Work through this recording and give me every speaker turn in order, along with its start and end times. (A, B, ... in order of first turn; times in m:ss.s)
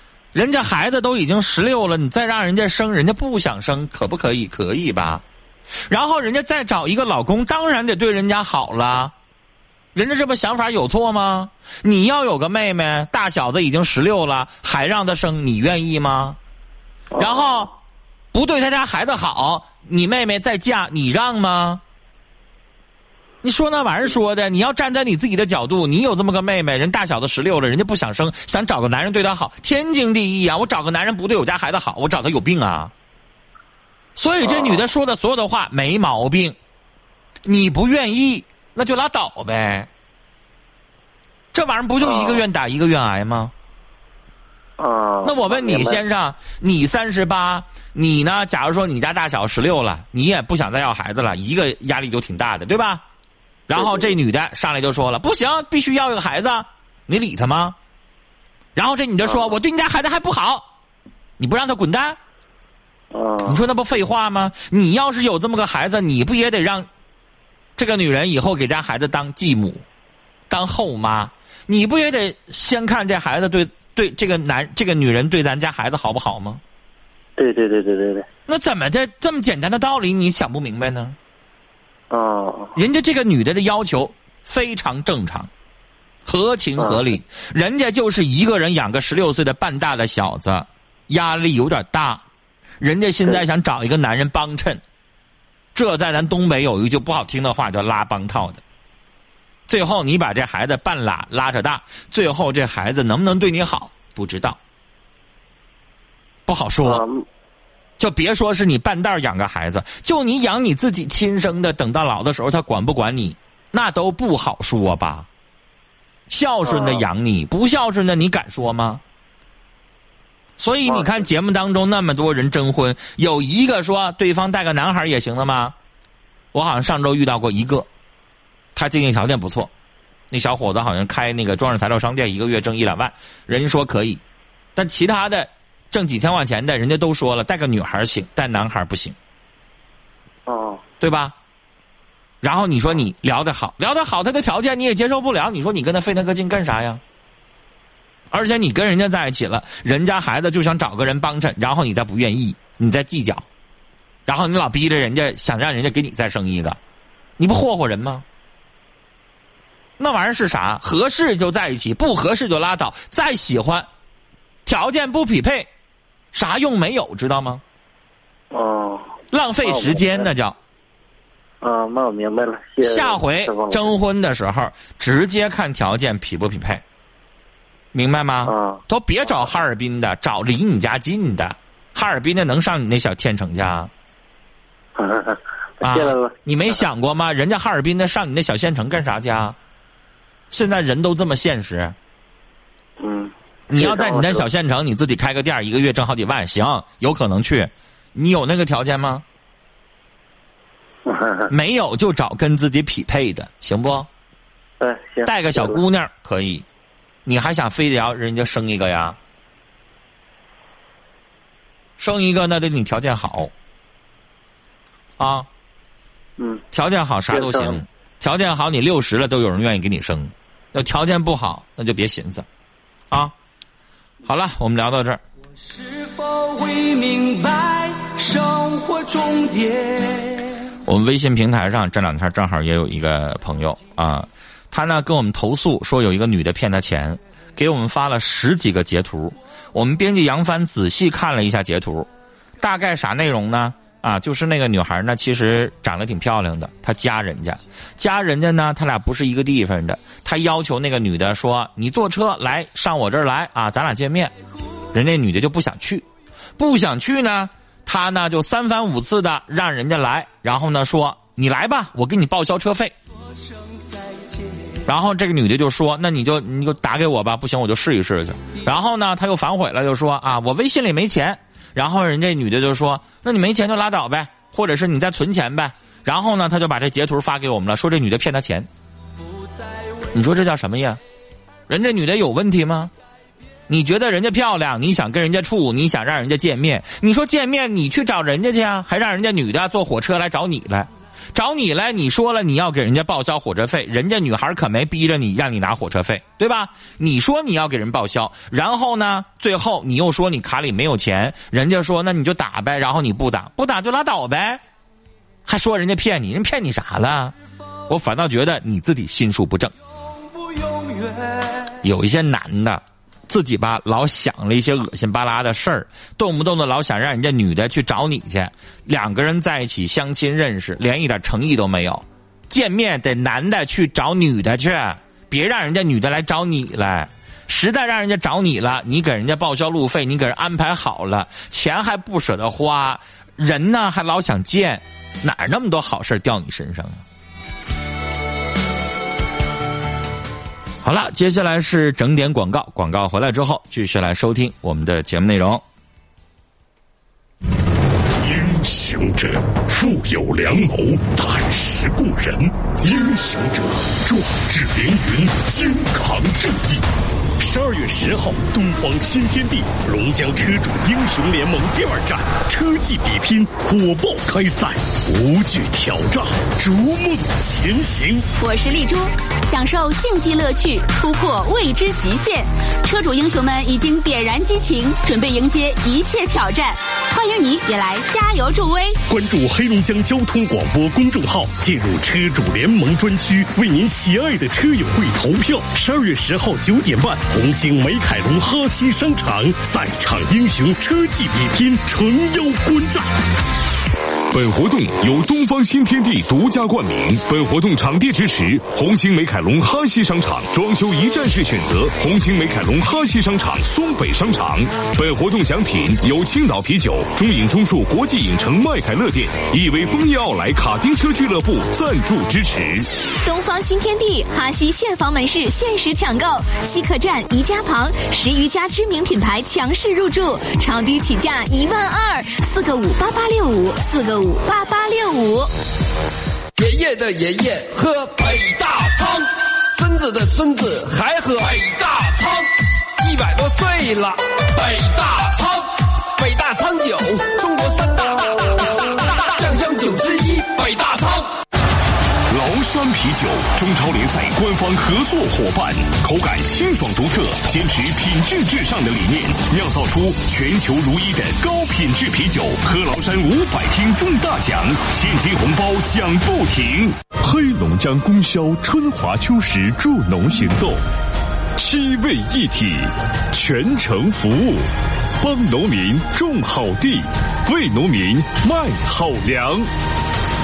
0:00.3-0:05.2 A
0:05.9-0:09.1 A
0:10.0-0:16.4 A
0:17.2-0:17.6 B
0:17.2-0:17.7 A
0:18.3-0:21.8 A
0:23.4-0:32.9 A
0:34.2-0:36.6 A
0:34.5-0:34.8 B
0:37.4-0:39.9 A
0:41.5-0:43.5 A
0:42.0-0:42.4 B
0:44.8-0:46.0 B
0:45.2-0:53.0 A
0:53.7-0:57.8 A
0:53.8-0:54.1 B
0:58.8-1:00.6 A
1:01.4-1:02.2 A
1:03.1-1:03.7 B
1:03.4-1:06.9 A
1:07.8-1:09.8 A
1:10.5-1:16.6 A
1:17.4-1:18.3 B
1:18.5-1:21.2 A
1:22.1-1:22.7 B
1:22.8-1:25.5 A
1:26.3-1:32.2 A
1:32.8-1:34.8 A
1:35.8-1:38.6 A
1:39.7-1:44.6 A
1:46.5-1:47.0 A
1:46.9-1:47.2 B
1:48.0-1:55.3 A
1:56.3-1:59.0 A
1:56.7-1:57.0 B
2:00.6-2:05.7 A
2:06.5-2:07.9 A
2:08.8-2:09.7 A
2:10.3-2:14.2 A
2:14.8-2:19.2 A
2:20.5-2:20.8 B
2:21.0-2:21.3 A
2:22.4-2:27.0 A
2:28.3-2:33.4 A
2:34.3-2:36.8 A
2:37.4-2:38.2 A
2:40.0-2:43.9 A
2:44.7-2:45.7 A
2:46.3-2:47.6 A
2:48.5-2:49.1 B
2:49.3-2:50.6 A
2:49.6-2:50.3 B
2:51.6-2:53.9 B
2:52.8-2:56.8 A
2:57.9-3:03.9 A
2:58.4-2:58.8 B
3:05.0-3:06.3 B
3:05.8-3:09.6 A
3:10.5-3:12.0 A
3:13.0-3:14.5 B
3:13.7-3:19.2 A
3:21.1-3:21.5 B
3:21.5-3:24.1 A
3:24.8-3:25.8 B
3:25.2-3:26.6 A
3:27.3-3:29.2 A
3:32.0-3:33.5 A
3:35.2-3:35.5 A
3:36.7-3:42.5 A
3:37.3-3:37.8 B
3:44.2-3:45.2 A
3:45.7-3:50.5 C
3:50.9-4:02.1 A
4:02.6-4:14.3 A
4:14.9-4:16.0 A
4:16.6-4:22.9 A
4:23.4-4:24.8 C
4:24.9-4:38.7 A
4:39.5-4:40.1 C
4:40.1-4:41.0 A
4:41.7-4:42.9 A
4:43.7-5:04.6 A
5:05.5-5:07.3 A
5:07.9-5:09.7 A
5:10.5-5:11.5 C
5:11.8-5:37.0 A
5:40.8-5:45.6 A
5:48.2-5:56.8 D
5:57.4-6:08.2 D
6:08.4-6:19.0 E
6:19.1-6:33.1 D
6:34.3-6:52.9 D
6:53.2-7:05.5 E
7:06.6-7:21.3 F
7:22.3-7:40.8 D
7:41.6-7:44.7 D
7:45.2-7:49.7 D